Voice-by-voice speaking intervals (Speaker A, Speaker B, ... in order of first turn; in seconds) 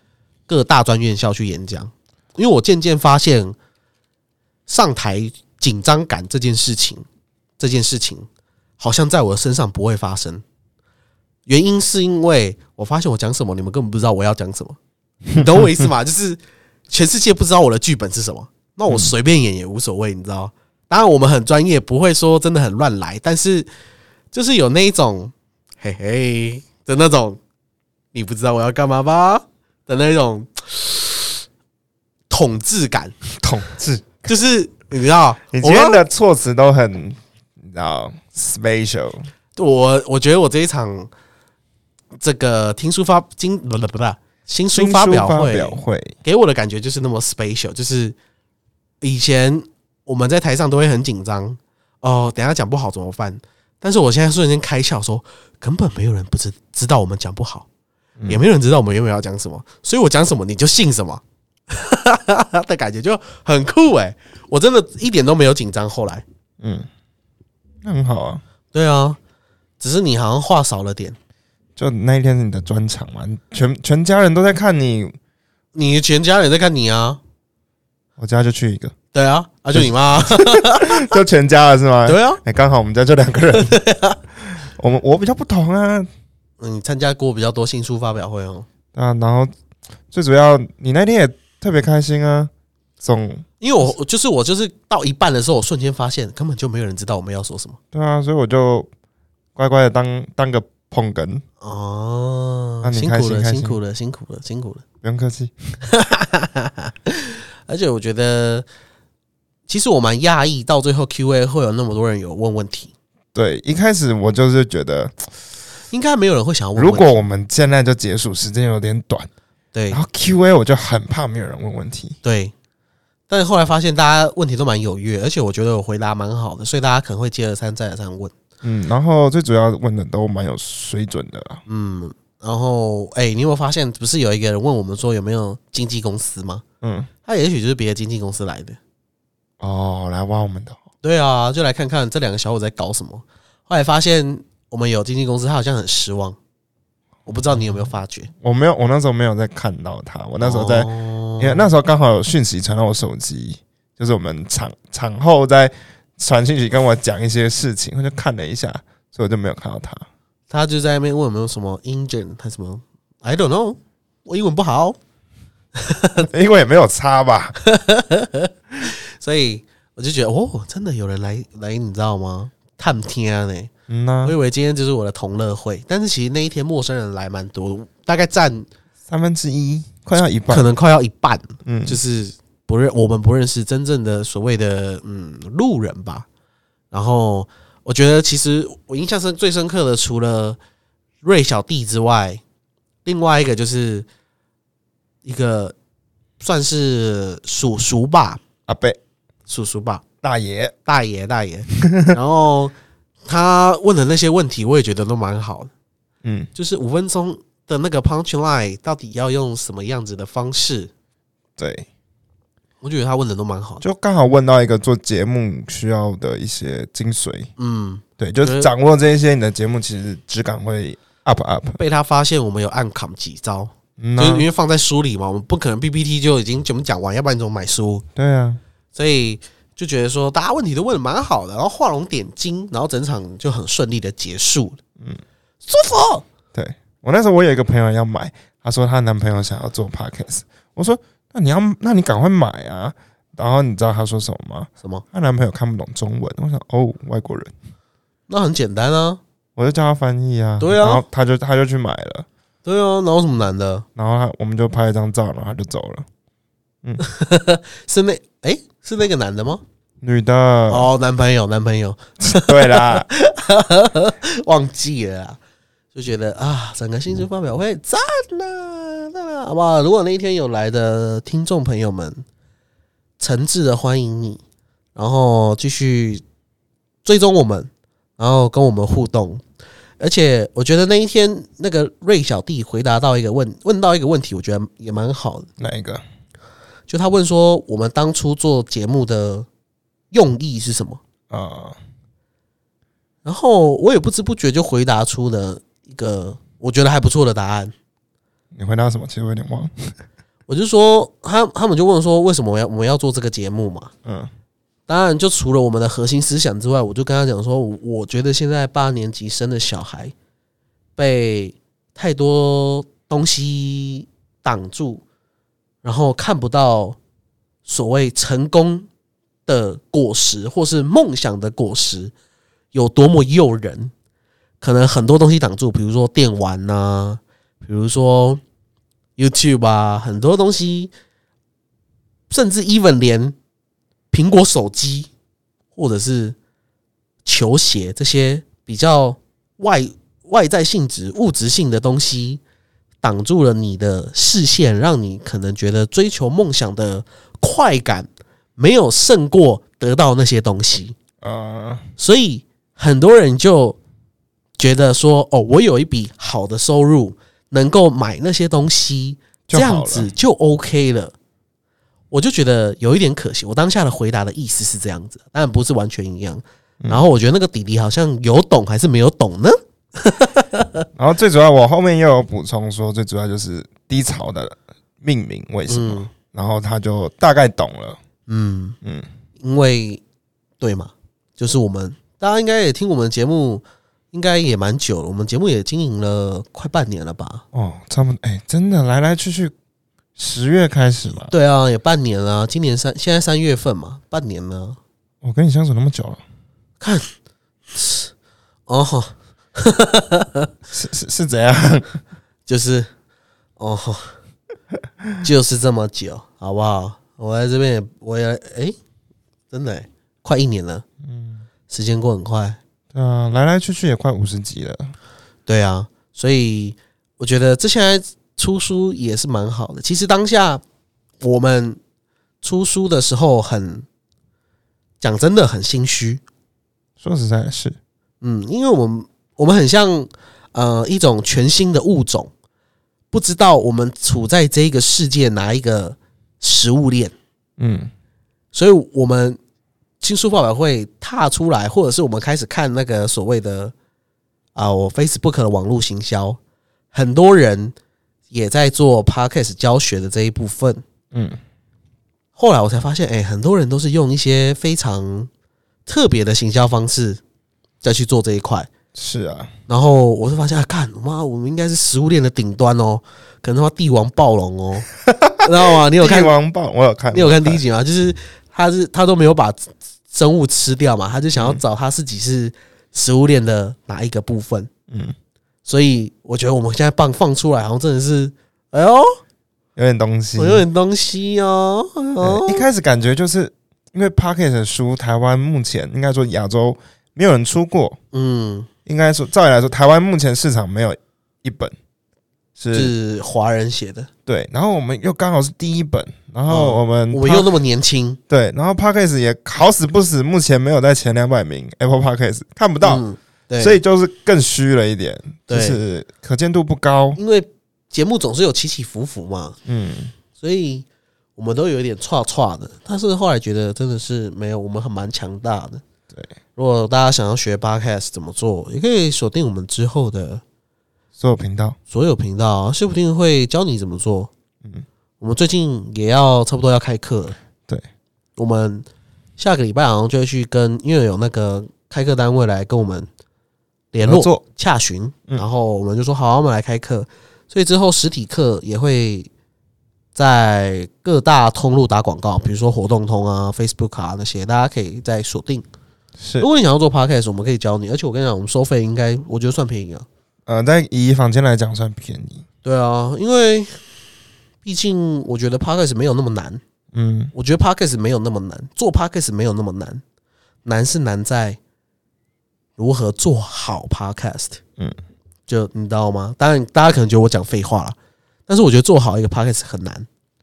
Speaker A: 0.5-3.5, 4.7-7.0, 7.6-8.3, 8.8-10.4, 11.5-14.8, 15.3-23.7, 24.3-27.4, 28.1-31.4, 32.3-33.1, 34.2-36.0, 39.5-41.1, 42.2-48.1, 49.0-57.7, 58.3-66.2, 68.7-69.2, 69.8-71.2, 75.7-77.2, 79.1-81.0, 82.0-82.4, 83.7-84.2, 86.6-88.7, 93.6-97.8, 101.6-104.8, 105.8-108.7, 109.7-112.9, 115.9-117.1, 119.7-120.0, 122.2-122.5, 123.3-128.3, 131.7-136.6, 137.2-138.8, 141.0-146.4, 147.2-148.3, 150.4-151.7, 160.5-165.0, 165.8-166.2, 167.6-173.7, 174.2-178.7, 180.5-186.3, 186.9-190.6, 191.2-192.4, 193.0-194.1, 195.2-195.7, 196.4-198.4, 199.5-200.0, 200.8-202.7, 203.2-205.7, 206.5-210.9, 212.8-213.8, 217.6-218.7, 221.7-228.0, 228.9-234.8, 235.6-236.2, 248.3-249.2, 250.6-251.0, 252.6-253.8, 257.0-259.6, 260.7-265.4, 265.9-272.2, 273.2-274.4, 274.9-276.2, 277.0-279.4, 280.0-285.5, 286.9-289.5, 290.1-291.0, 293.2-297.7, 300.5-303.9, 304.9-310.1, 311.0-315.0, 315.8-317.0, 317.6-318.9, 319.4-322.1, 322.7-323.9, 324.6-328.4, 329.2-330.9, 332.3-333.4, 334.1-335.1, 335.7-336.4, 337.2-342.4, 343.0-350.9, 352.0-353.8, 354.6-361.1, 362.1-370.8, 375.7-376.1, 378.3-378.8, 379.4-380.0, 380.6-387.4, 391.2-394.8, 396.8-397.1, 397.7-398.1, 398.7-400.5, 402.4-402.9, 403.6-404.2, 405.2-408.8, 409.5-410.8, 411.7-412.6, 415.5-420.6, 421.2-421.8, 422.4-423.9, 425.0-426.2, 428.2-432.3, 433.1-437.1, 438.5-439.4, 440.0-443.7, 444.5-446.4, 446.9-447.8, 448.3-450.8, 452.4-455.3, 455.9-457.2, 457.8-458.7, 459.7-464.9, 465.4-466.3, 467.1-474.7, 475.6-479.1, 480.4-482.6, 488.1-488.7, 492.7-494.1, 496.5-498.2, 502.8-503.8, 505.5-505.8, 507.2-509.6, 510.4-515.8, 516.5-520.4, 521.9-524.3, 525.2-527.4, 528.4-528.9, 529.4-533.1, 533.9-539.3, 540.1-545.6, 546.4-550.0, 552.6-553.9, 554.6-556.6, 557.3-560.0, 560.6-561.6, 562.8-564.6, 565.5-568.0, 568.5-570.1
Speaker B: 33.4-34.2, 35.5-39.3, 44.7-46.2, 66.6-66.9, 67.8-68.4, 71.8-75.2, 78.2-78.9, 79.7-83.8, 84.6-86.1, 88.9-89.5, 90.1-93.4, 97.9-98.9, 99.5-101.4, 102.8-103.8, 105.0-105.8, 113.3-115.2, 116.8-119.3, 119.9-122.2, 128.6-131.6, 136.8-137.1, 139.6-140.8, 147.5-147.8, 148.4-160.1, 166.2-167.6, 173.9-174.3, 179.1-180.7, 181.6-182.0, 198.7-199.0, 200.2-200.7, 201.7-202.1, 206.2-206.5, 211.6-211.9, 213.8-217.5, 218.2-221.8, 224.0-224.4, 228.2-228.6, 236.5-247.5, 249.6-252.3, 253.9-256.1, 260.0-260.9, 262.2-263.1, 285.6-286.0, 291.3-291.8, 298.5-299.9, 304.0-304.3, 351.2-351.8, 359.5-360.1, 370.9-378.0, 378.8-379.1, 387.5-389.5, 390.2-391.3, 395.2-396.2, 400.7-402.0, 411.0-411.4, 412.9-414.9, 427.0-427.8, 437.6-437.9, 451.1-451.4, 458.9-459.5, 465.1-465.4, 466.0-467.6, 474.9-475.1, 479.8-480.6, 482.2-488.0, 488.9-491.7, 492.6-492.9, 494.2-497.5, 498.3-503.0, 503.6-507.2, 509.6-510.1, 521.2-521.8, 534.0-534.4, 546.2-546.5, 550.5-552.4, 556.9-557.3